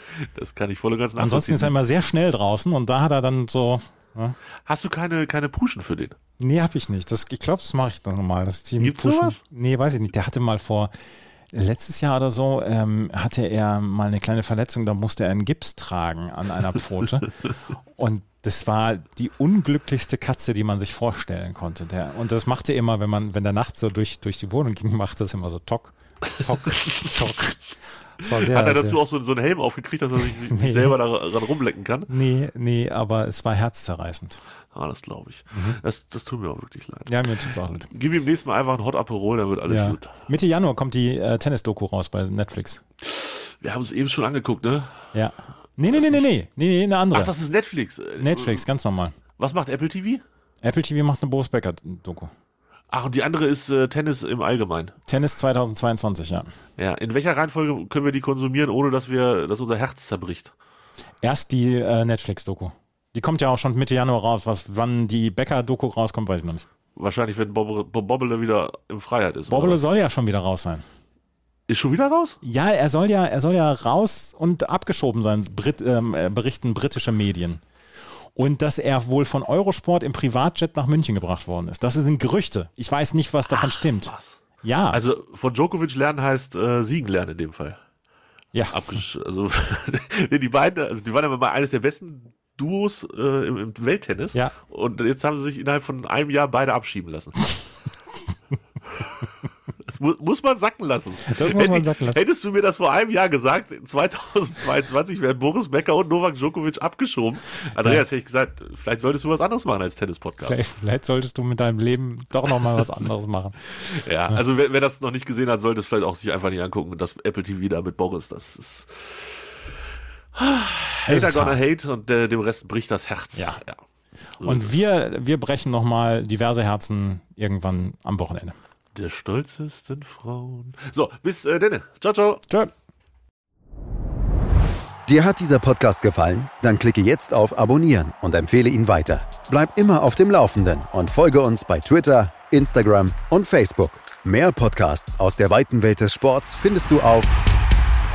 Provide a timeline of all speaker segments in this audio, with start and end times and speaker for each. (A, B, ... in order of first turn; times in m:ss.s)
0:00.2-0:01.8 A
0:01.2-0:04.4 B
0:04.6-0:06.2 A
0:06.4-0:10.9 B
0:08.8-0:09.4 A
0:11.5-0:17.3 B
0:17.9-0:27.6 B
0:26.6-0:27.1 A
0:28.2-0:29.0 B
0:28.2-0:32.1 A
0:30.5-0:31.0 B
0:32.1-0:34.4 B
0:34.7-0:40.2 A
0:35.5-0:35.8 B
0:37.1-0:37.9 B
0:39.7-0:42.8 B
0:43.0-0:45.0 A
0:45.1-0:47.3 B
0:45.9-0:46.3 A
0:47.1-0:48.6 A
0:48.2-0:49.2 B
0:49.4-0:50.2 A
0:50.6-0:52.3 B
0:52.9-0:54.9 A
0:55.1-0:56.5 B
0:56.8-1:00.5 A
1:01.2-1:06.6 B
1:07.0-1:09.8 A
1:09.5-1:10.8 B
1:11.7-1:12.4 A
1:12.4-1:17.6 B
1:18.3-1:24.1 B
1:23.5-1:27.8 A
1:24.6-1:25.0 B
1:28.5-1:29.0 B
1:28.7-1:37.5 A
1:38.9-1:50.6 A
1:41.2-1:42.2 B
1:50.4-1:53.6 B
1:53.8-1:59.5 A
2:00.3-2:03.8 A
2:01.1-2:01.7 B
2:03.3-2:03.6 B
2:04.4-2:04.7 A
2:04.4-2:08.6 B
2:08.9-2:12.4 A
2:15.1-2:27.4 C